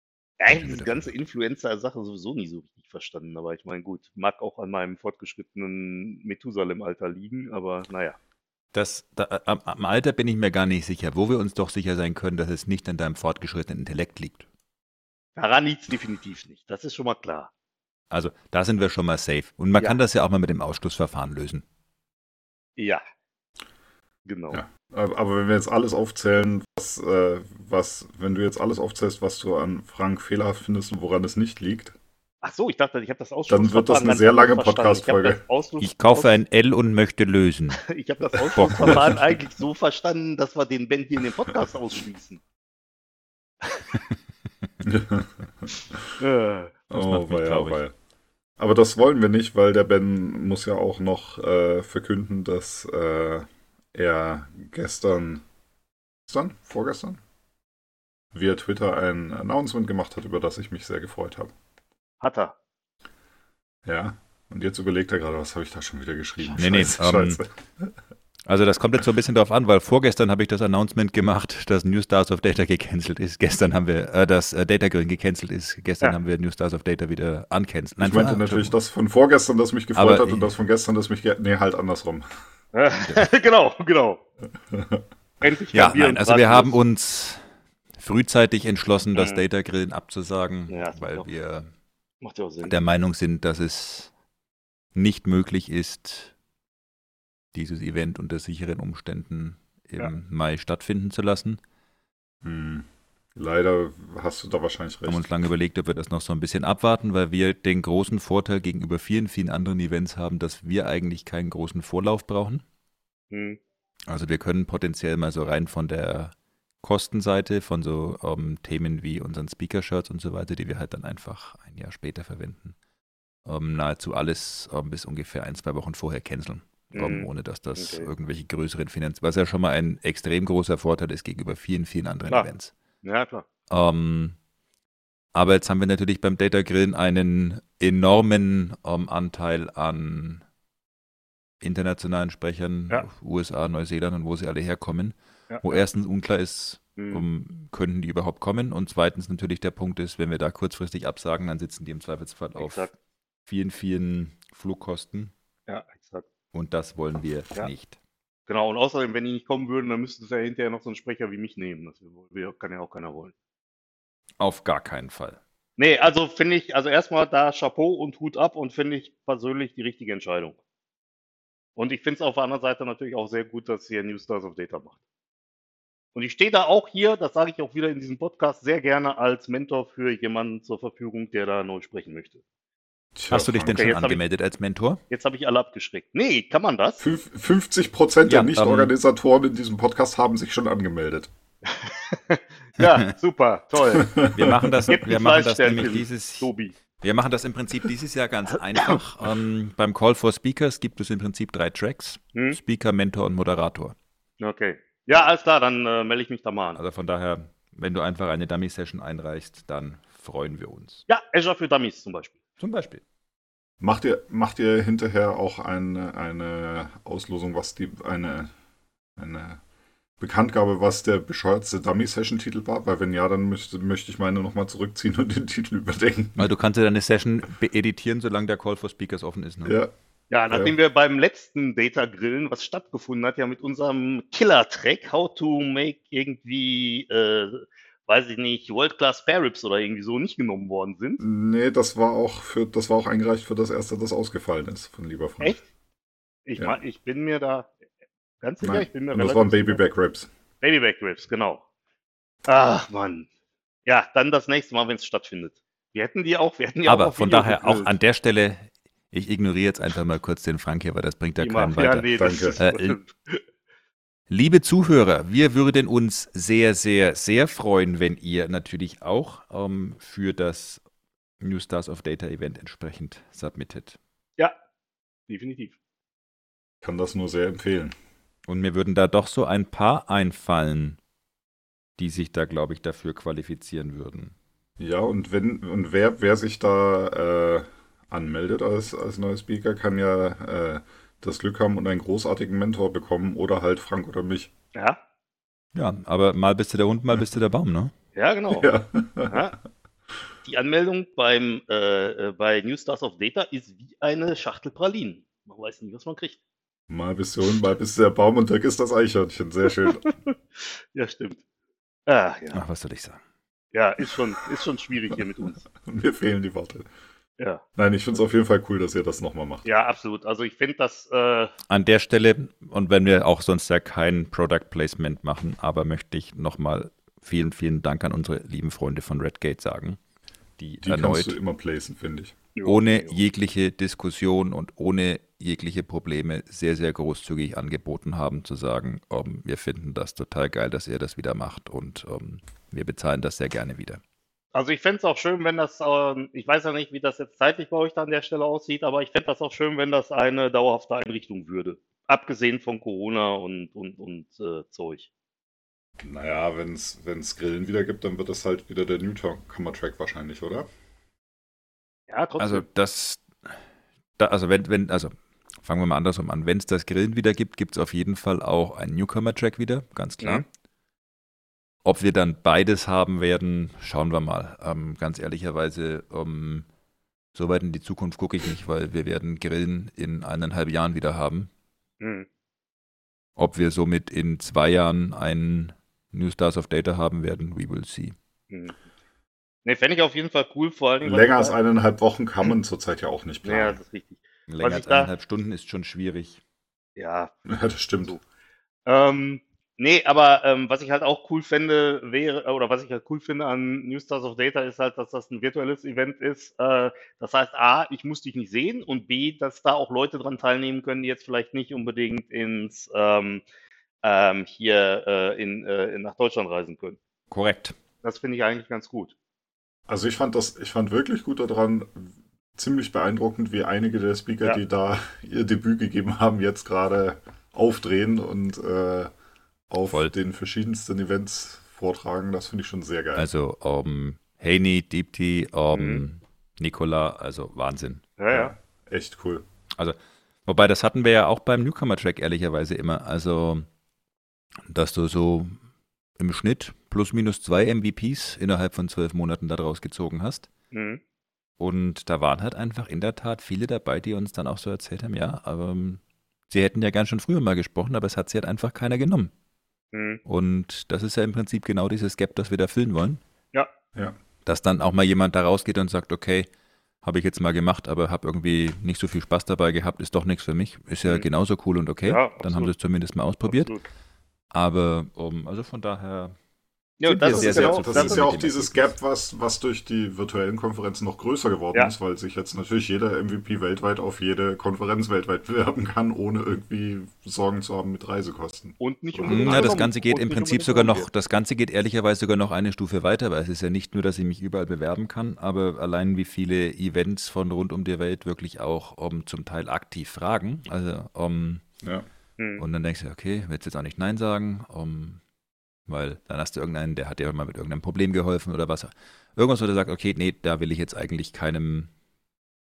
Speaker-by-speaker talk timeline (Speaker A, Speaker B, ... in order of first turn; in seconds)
Speaker A: 0.4-8.2, 15.3-17.5, 22.8-23.0, 24.2-24.6, 32.4-36.3, 37.8-42.4, 46.2-46.7, 62.2-62.5, 82.7-84.2, 85.4-86.8, 89.2-89.4, 90.7-91.3, 92.2-92.7, 113.3-113.6, 126.9-128.1, 133.0-133.4, 145.5-145.8, 147.0-147.2, 152.6-152.9, 155.7-156.2, 158.5-163.3, 165.8-170.6, 171.8-174.9, 176.1-182.4, 183.7-184.2, 185.1-187.0, 191.7-194.2, 194.9-196.7, 204.4-206.8, 211.1-212.4, 230.3-241.2, 246.4-247.7, 248.4-249.8, 250.6-251.6, 252.5-253.3, 253.8-257.9, 261.4-263.4, 275.3-275.8, 298.1-298.7, 299.3-299.6, 300.4-306.4, 310.6-311.4, 312.1-312.6, 313.7-315.6, 319.6-321.5, 332.6-333.1, 344.5-355.1, 362.1-362.6, 382.0-382.3, 388.5-388.8, 389.6-391.6, 393.4-395.1, 397.0-397.3, 398.9-413.4, 414.0-417.0, 418.0-419.1, 435.7-436.0, 438.2-438.5, 450.7-451.0, 459.9-460.2, 472.0-472.7, 473.5-473.9, 477.0-478.2, 488.8-491.1, 502.4-502.6
Speaker B: 0.6-1.0, 8.7-14.4, 18.1-21.6, 35.8-37.8, 38.6-39.2, 46.9-47.8, 66.5-67.4, 68.5-78.7, 79.9-80.5, 85.7-87.4, 88.0-91.7, 92.6-94.1, 94.9-96.3, 97.5-101.6, 105.1-112.6, 114.1-122.7, 123.5-132.7, 133.7-134.3, 135.3-140.4, 141.6-152.9, 153.5-155.3, 156.5-158.0, 164.4-165.4, 183.3-185.0, 188.2-188.9, 194.3-196.5, 197.0-203.9, 206.8-211.0, 212.6-213.0, 226.4-229.8, 256.9-263.0, 264.3-270.8, 271.4-274.0, 278.5-281.0, 282.0-284.3, 295.7-297.9, 312.5-313.2, 321.7-330.0, 330.6-331.4, 332.6-344.0, 362.4-363.2, 364.2-370.4, 371.8-376.6, 377.3-381.5, 383.4-388.1, 394.5-396.4, 417.3-417.7, 433.1-438.0, 439.8-443.7, 444.7-445.6, 446.2-450.5, 451.6-459.3, 460.2-463.2, 464.4-466.5, 467.0-473.7, 474.5-476.3, 477.0-478.9, 489.3-501.6, 502.6-505.2, 505.9-511.9
Speaker C: 24.5-31.9, 33.5-35.4, 38.7-39.0, 44.8-46.0, 46.9-47.9, 48.6-55.4, 56.3-57.2, 58.3-61.5, 63.9-67.9, 78.0-82.3, 84.7-85.0, 102.4-105.3, 183.1-183.9, 187.0-191.3, 193.9-194.8, 213.8-218.5, 219.2-219.6, 220.2-226.5, 229.6-229.9, 230.5-230.7, 241.2-245.6, 248.6-250.3, 262.1-262.6, 276.8-277.9, 284.8-294.5, 298.5-299.4, 306.9-310.1, 315.7-316.9, 317.8-319.7, 330.8-332.4, 356.0-360.7, 391.0-393.8, 397.4-398.2, 419.9-429.1, 429.7-433.3, 438.3-439.4, 477.2-489.8